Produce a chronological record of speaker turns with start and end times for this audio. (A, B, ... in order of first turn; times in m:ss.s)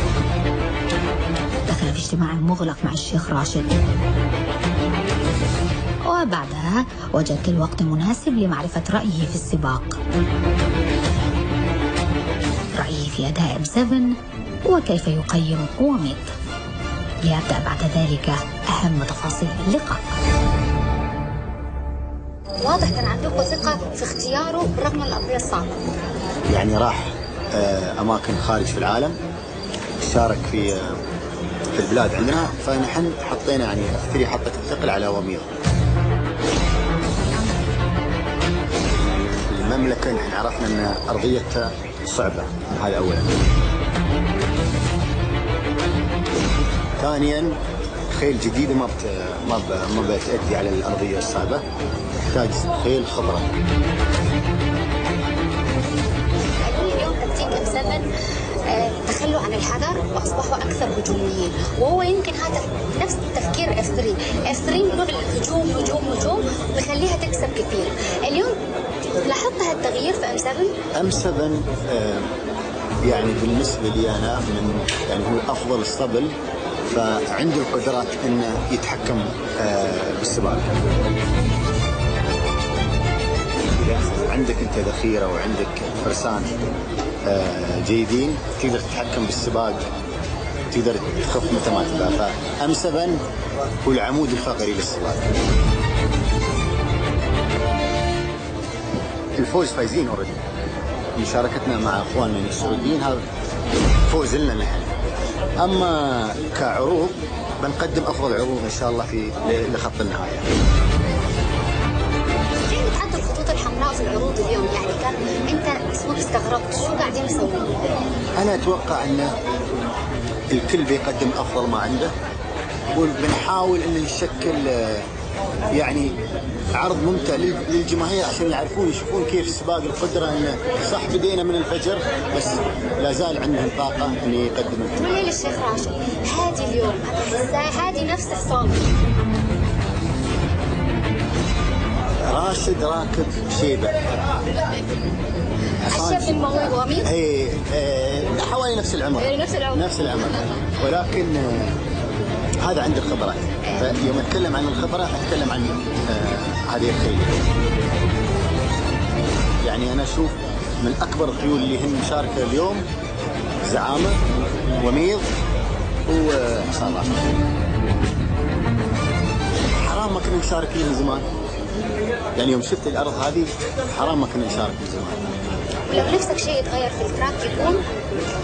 0:01.7-0:03.7 A
0:06.0-0:10.0 A
0:12.7-0:16.2 A
0:17.2-0:20.0 A
0:22.6-0:25.8 B
0:26.5-0:29.2 C
0:30.0-0:31.0 C
0:31.7-0:35.5 C
0:39.0-0:43.3 C
0:47.0-0:47.6 C
0:48.1-0:51.6 C
0:52.3-0:53.5 C
0:56.6-0:58.1 B
0:58.6-1:08.6 B
1:09.2-1:10.8 B
1:10.9-1:12.3 C
1:13.0-1:20.7 C
1:23.8-1:26.6 C
1:27.2-1:29.8 C
1:30.7-1:33.2 C
1:33.8-1:35.3 C
1:39.4-1:40.4 C
1:41.2-1:43.2 C
1:44.1-1:44.9 C
1:45.6-1:50.5 C
1:52.6-1:57.9 B
1:58.4-1:59.4 C
2:00.5-2:02.1 C
2:02.9-2:05.0 C
2:05.7-2:06.2 C
2:06.8-2:15.2 C
2:15.0-2:18.8 B
2:22.3-2:24.2 C
2:25.8-2:31.8 C
2:25.9-2:27.1 B
2:29.3-2:29.8 B
2:32.6-2:37.4 C
2:39.6-2:42.8 C
2:43.6-2:44.2 C
2:44.8-2:45.3 C
2:46.1-2:47.1 C
2:49.8-2:51.3 C
2:52.4-2:55.3 C
2:55.9-2:57.8 B